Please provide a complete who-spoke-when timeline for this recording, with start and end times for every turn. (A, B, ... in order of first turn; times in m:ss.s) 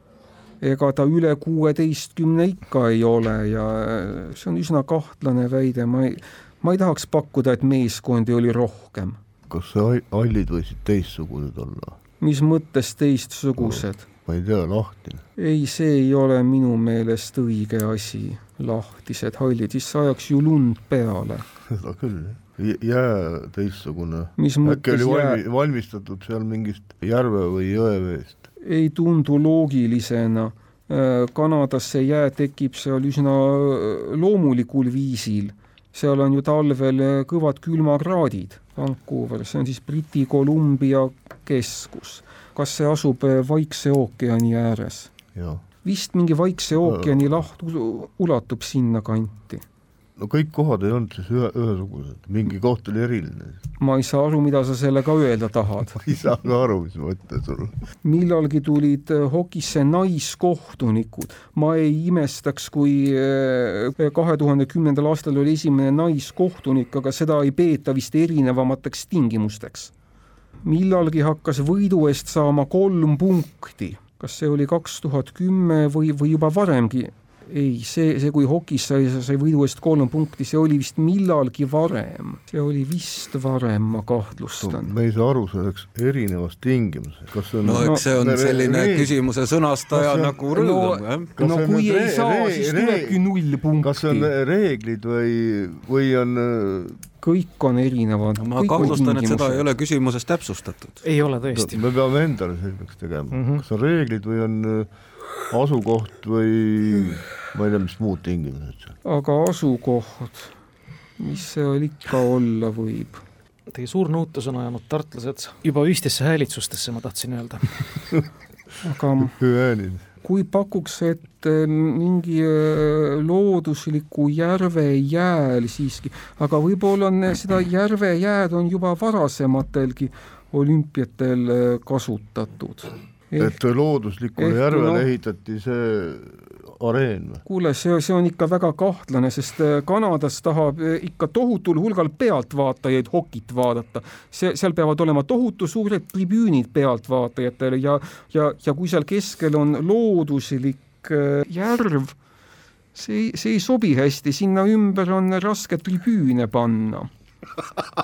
0:00.6-0:09.2 A
0:09.5-0:12.0 B
0:12.2-0:14.0 A
0:13.6-0:15.2 B
0:15.4-0:21.4 A
0:21.7-0:28.4 B
0:24.4-0:25.4 A
0:28.6-0:45.1 A
0:45.4-0:45.6 B
0:45.8-0:49.6 A
0:46.8-0:47.4 B
0:50.2-0:53.6 B
0:53.8-0:56.0 A
0:56.0-0:57.7 B
0:58.0-1:09.9 A
1:10.6-1:24.9 A
1:24.6-1:29.1 B
1:27.6-1:31.3 C
1:27.7-1:28.0 A
1:29.9-1:30.4 B
1:30.5-1:34.3 A
1:31.4-1:33.2 B
1:33.8-1:37.0 B
1:37.2-1:39.7 A
1:38.4-1:41.0 C
1:41.0-1:41.8 D
1:41.5-1:44.9 B
1:43.3-1:43.6 D
1:45.5-1:49.0 B
1:49.0-1:50.5 A
1:51.2-1:53.2 A
1:53.7-1:58.1 D
1:58.8-1:59.4 A
1:59.2-2:00.0 B
2:00.2-2:13.6 A
2:13.4-2:17.4 B
2:14.4-2:15.1 A
2:17.4-2:32.2 A
2:33.0-2:37.1 A